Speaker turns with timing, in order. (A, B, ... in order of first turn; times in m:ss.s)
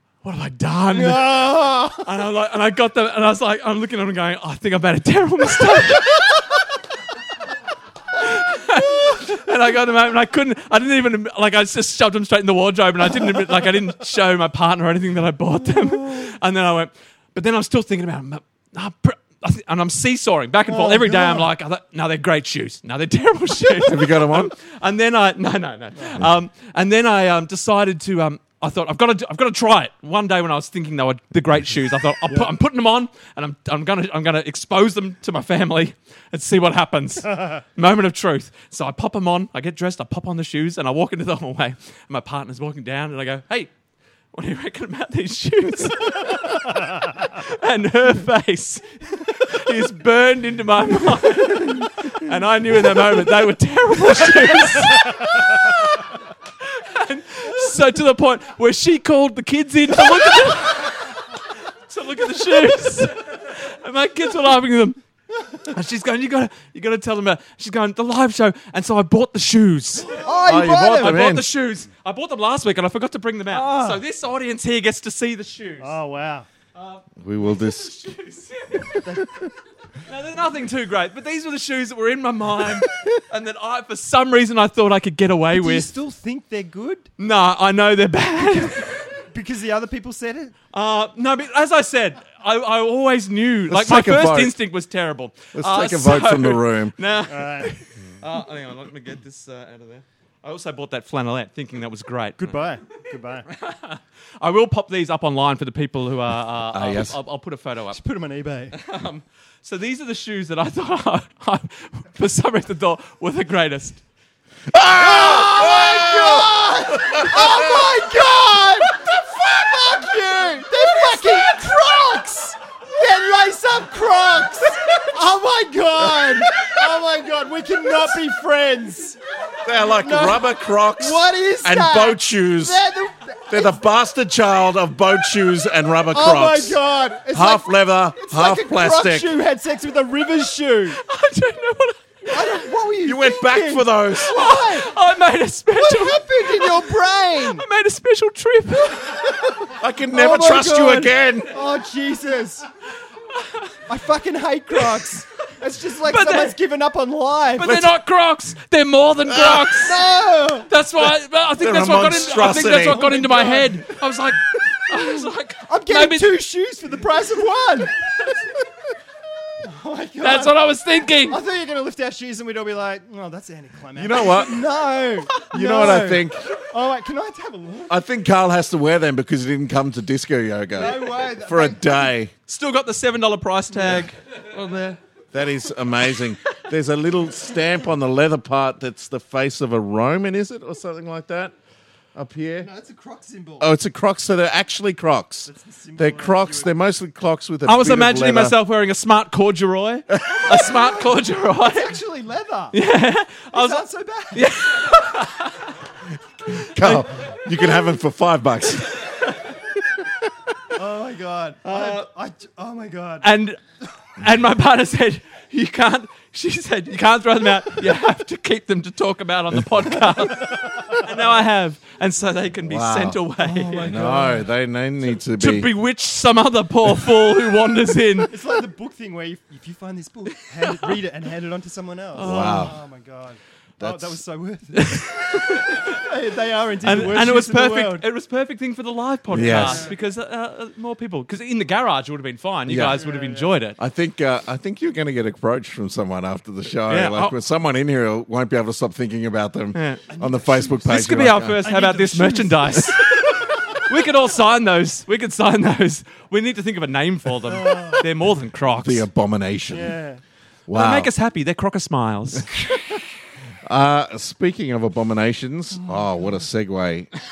0:00.2-0:06.3 A
0:00.9-0:02.1 B
0:08.2-0:43.7 A
0:20.6-0:21.5 B
0:23.8-0:24.5 C
0:44.3-0:55.3 A
0:54.7-0:55.3 B
0:56.6-1:01.3 A
1:01.9-1:05.0 A
1:05.6-1:10.2 A
1:10.1-1:11.3 B
1:10.4-1:11.4 C
1:10.9-1:16.0 A
1:13.5-1:14.0 B
1:15.8-1:16.5 B
1:16.8-1:19.0 A
1:17.2-1:17.9 C
1:19.0-1:19.5 B
1:20.1-1:25.9 A
1:25.6-1:27.1 B
1:27.2-1:29.1 A
1:28.5-1:30.5 B
1:30.7-1:48.0 A
1:33.7-1:34.5 C
1:35.5-1:36.9 C
1:37.3-1:37.8 B
1:42.4-1:43.5 B
1:46.7-1:47.1 C
1:47.9-1:48.8 B
1:48.7-1:54.0 A
1:54.7-1:57.9 C
1:54.9-2:09.2 B
2:09.6-2:12.8 C
2:09.8-2:13.8 B
2:13.5-2:16.8 C
2:16.1-2:21.0 B
2:17.3-2:19.3 C
2:21.0-2:22.6 A
2:22.3-2:24.9 B
2:23.0-2:24.4 C
2:24.3-2:29.2 A
2:25.7-2:27.6 B
2:28.9-2:32.6 B
2:29.8-2:31.5 C
2:33.3-2:33.7 A
2:33.9-2:37.9 B
2:36.0-2:36.6 A
2:37.6-2:40.0 A
2:39.3-2:39.7 C
2:39.7-2:40.7 B
2:40.7-2:46.3 A
2:41.6-2:43.0 C
2:42.7-2:43.8 B
2:45.7-2:47.9 B
2:49.6-2:57.9 B
2:50.2-2:51.4 A
2:54.0-2:54.6 C
2:55.5-2:56.5 C
2:57.9-3:02.3 C
3:00.7-3:02.1 B
3:02.5-3:05.0 A
3:05.3-3:11.5 C
3:12.1-3:12.7 C
3:12.6-3:13.7 B
3:13.6-3:18.5 C
3:15.4-3:16.7 B
3:17.6-3:22.0 A
3:20.3-3:22.8 B
3:22.7-3:25.7 A
3:23.5-3:24.5 B
3:26.5-3:29.0 C
3:30.7-3:33.3 B
3:31.6-3:32.1 A
3:33.2-3:33.6 A
3:34.2-3:43.9 A
3:40.0-3:41.2 B
3:42.6-3:43.2 C
3:43.4-3:44.5 B
3:43.8-3:45.7 C
3:45.4-3:48.3 A
3:48.3-3:58.0 B
3:50.6-3:50.9 A
3:52.1-3:52.7 A
3:52.2-3:52.7 C
3:53.8-3:54.1 C
3:54.7-3:56.0 A
3:56.8-4:03.8 A
3:59.3-3:59.8 C
3:59.5-3:59.7 B
4:02.7-4:03.0 C
4:02.9-4:03.6 B
4:03.8-4:11.6 C
4:06.9-4:07.3 A
4:09.7-4:10.0 A
4:10.1-4:14.0 B
4:10.8-4:13.0 A
4:13.8-4:19.0 A
4:17.4-4:18.1 B
4:18.8-4:19.9 C
4:19.7-4:20.2 B
4:20.7-4:21.1 C
4:20.7-4:22.5 A
4:22.5-4:23.0 B
4:23.6-4:27.1 C